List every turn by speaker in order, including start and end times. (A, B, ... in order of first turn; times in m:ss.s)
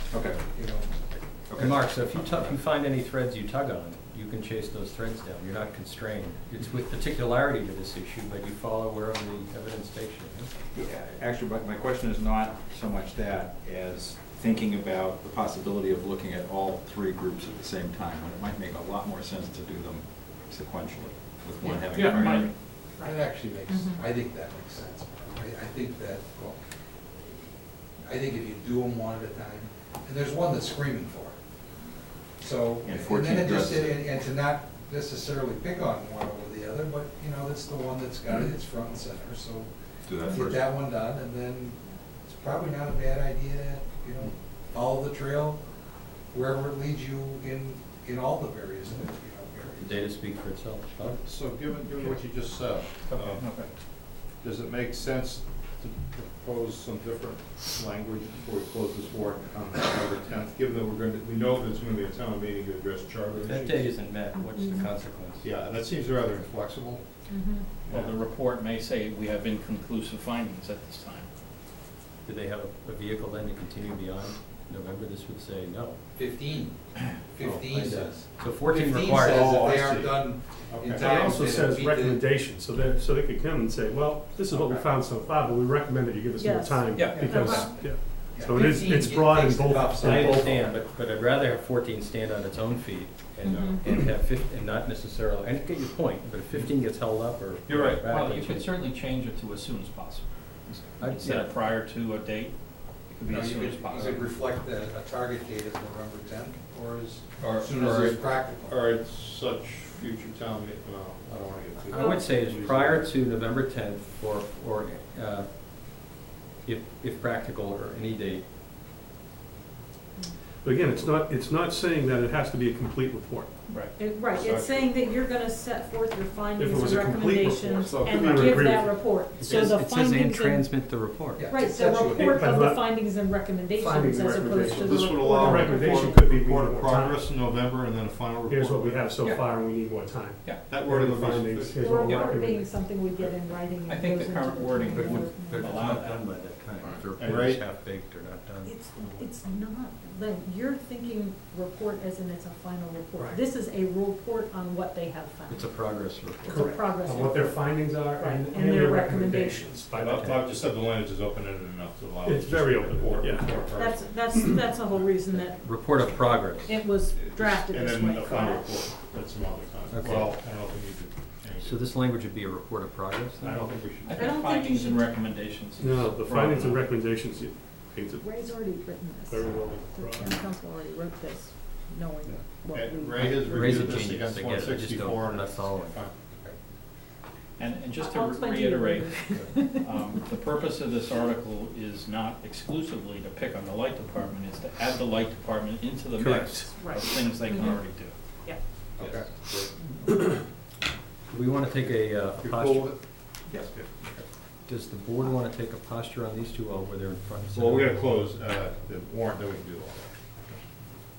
0:00.1-0:00.5 A
0:00.4-0:01.1 B
0:01.4-0:02.5 A
0:01.6-0:10.5 C
0:10.7-0:22.5 A
0:21.6-0:24.0 D
0:21.9-0:22.5 E
0:23.0-0:26.6 B
0:28.0-0:31.3 B
0:32.4-0:39.7 B
0:32.8-0:34.0 A
0:40.1-0:40.6 A
0:40.2-0:50.0 B
0:49.8-0:51.2 C
0:51.1-0:53.5 F
0:53.1-0:53.7 E
0:54.4-1:03.9 F
1:03.3-1:05.5 C
1:04.3-1:04.9 D
1:05.4-1:07.0 F
1:07.3-1:07.6 D
1:07.8-1:08.2 F
1:07.9-1:11.3 E
1:12.2-1:16.0 C
1:16.2-1:22.2 B
1:17.4-1:19.8 C
1:19.3-1:21.3 F
1:20.9-1:30.6 G
1:24.5-1:24.8 B
1:26.4-1:28.4 D
1:26.9-1:27.5 E
1:28.1-1:30.6 B
1:30.0-1:38.8 C
1:33.4-1:33.8 D
1:33.4-1:33.8 F
1:37.7-1:44.2 E
1:41.0-1:41.5 C
1:43.2-1:48.8 B
1:47.4-1:53.1 F
1:51.7-1:58.5 C
1:51.9-1:52.2 D
2:00.6-2:03.5 G
2:03.7-2:03.9 E
2:03.8-2:10.7 D
2:04.3-2:05.3 F
2:06.6-2:09.2 G
2:07.8-2:08.8 F
2:09.4-2:11.5 C
2:11.4-2:12.5 B
2:11.5-2:16.2 D
2:12.2-2:12.9 G
2:13.7-2:17.3 G
2:14.6-2:19.2 F
2:18.4-2:22.8 G
2:20.6-2:22.3 F
2:21.8-2:26.0 D
2:23.8-2:26.2 E
2:24.9-2:28.8 C
2:27.1-2:27.6 F
2:28.6-2:39.8 D
2:29.0-2:29.3 F
2:35.5-2:37.3 C
2:36.4-2:40.4 G
2:39.9-2:45.2 F
2:42.2-2:43.6 G
2:43.7-2:48.8 D
2:45.4-2:46.8 C
2:47.0-2:51.9 F
2:49.9-2:50.3 C
2:51.6-2:53.8 C
2:53.4-2:54.4 F
2:54.0-2:56.8 E
2:54.1-2:55.3 D
2:55.8-2:58.3 G
2:58.2-3:04.1 D
2:59.3-3:00.4 G
3:02.3-3:06.2 F
3:03.2-3:06.0 C
3:07.6-3:18.1 E
3:07.9-3:09.9 D
3:16.7-3:17.8 D
3:19.0-3:19.2 C
3:19.0-3:19.7 F
3:21.3-3:23.0 C
3:22.4-3:24.2 F
3:24.6-3:28.1 C
3:27.5-3:30.6 F